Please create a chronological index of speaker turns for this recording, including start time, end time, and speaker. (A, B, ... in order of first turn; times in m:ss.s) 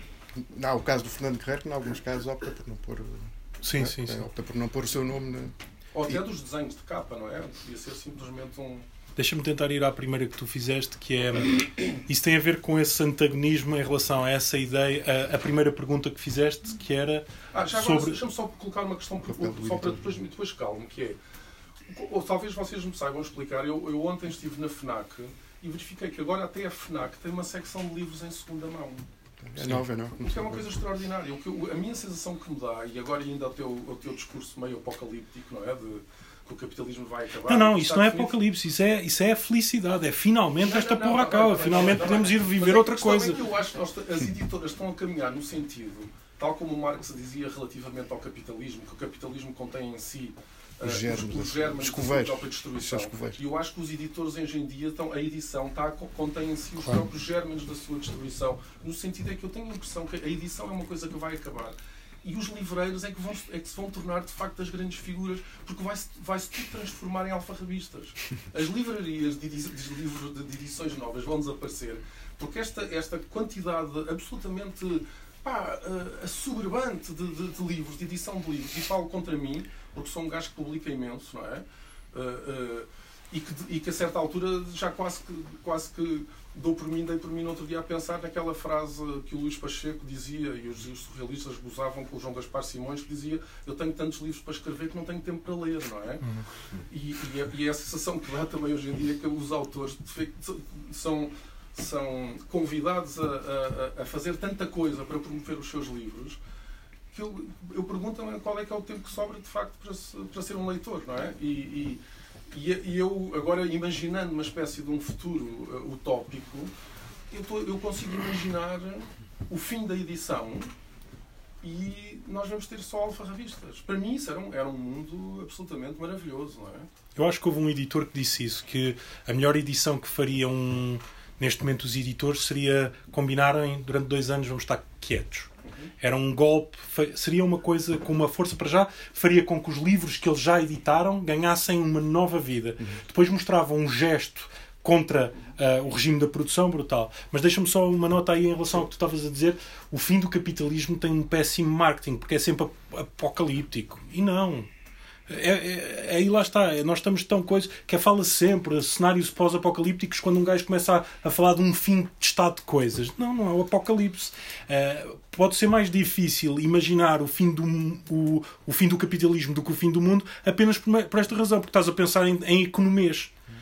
0:00.4-0:05.6 A
0:03.6-0:04.3 B
0:05.9-0:08.8 C
0:09.2-0:18.2 B
0:17.5-0:21.2 C
0:19.3-0:20.2 A
0:21.9-0:29.1 C
0:29.4-0:30.8 A
0:30.2-0:38.4 C
0:37.4-0:43.4 B
0:40.6-1:36.2 C
0:50.8-0:53.4 A
1:36.9-1:46.4 C
1:47.1-1:56.7 C
1:57.3-2:00.7 C
2:01.6-2:06.9 C
2:07.2-2:15.5 B
2:16.0-2:34.7 B
2:35.3-2:53.3 B